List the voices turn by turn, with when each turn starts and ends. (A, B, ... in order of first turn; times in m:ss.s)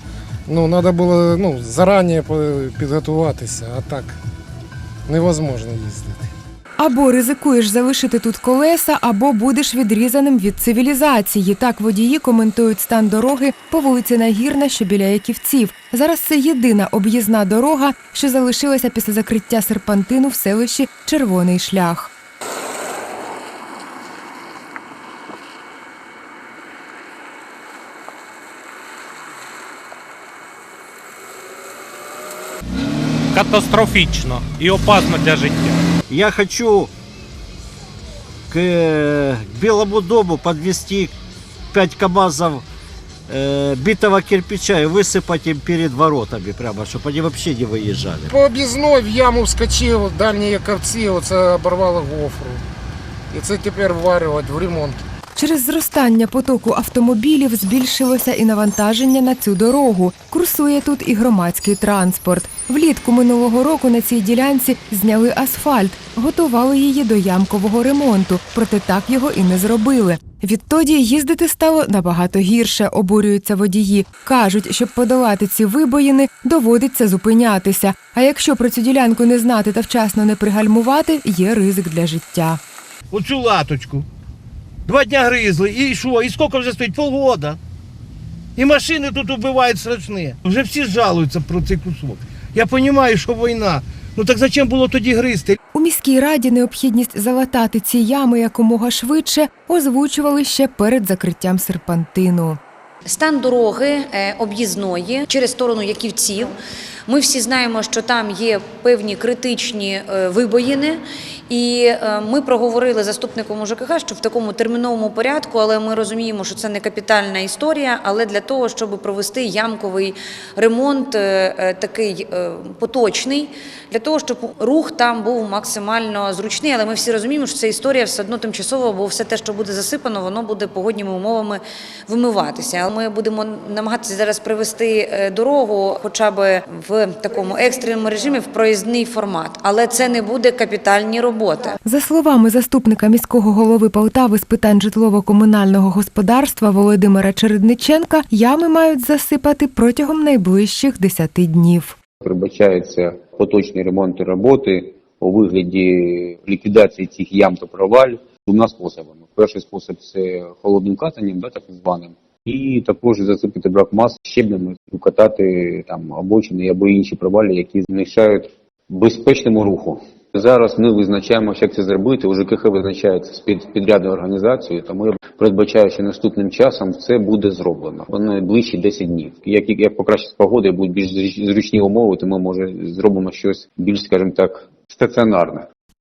0:00.5-0:04.2 A
0:05.1-0:06.3 A
0:06.8-0:22.1 B
0:33.3-0:35.9 C
0:36.1-0:36.9 D
0:38.5-0:41.1 D
0:41.7-0:42.6 D
0:43.3-0:48.3 D
0:48.3-0:52.6 A
0:53.3-0:55.0 A
0:55.4-1:22.6 B
1:23.1-1:24.1 E
1:24.9-1:27.6 E
1:28.6-1:35.6 E
1:35.7-1:42.6 B
1:43.1-1:46.6 F
1:47.1-2:21.8 F
2:21.8-2:32.0 B
2:32.2-3:05.7 G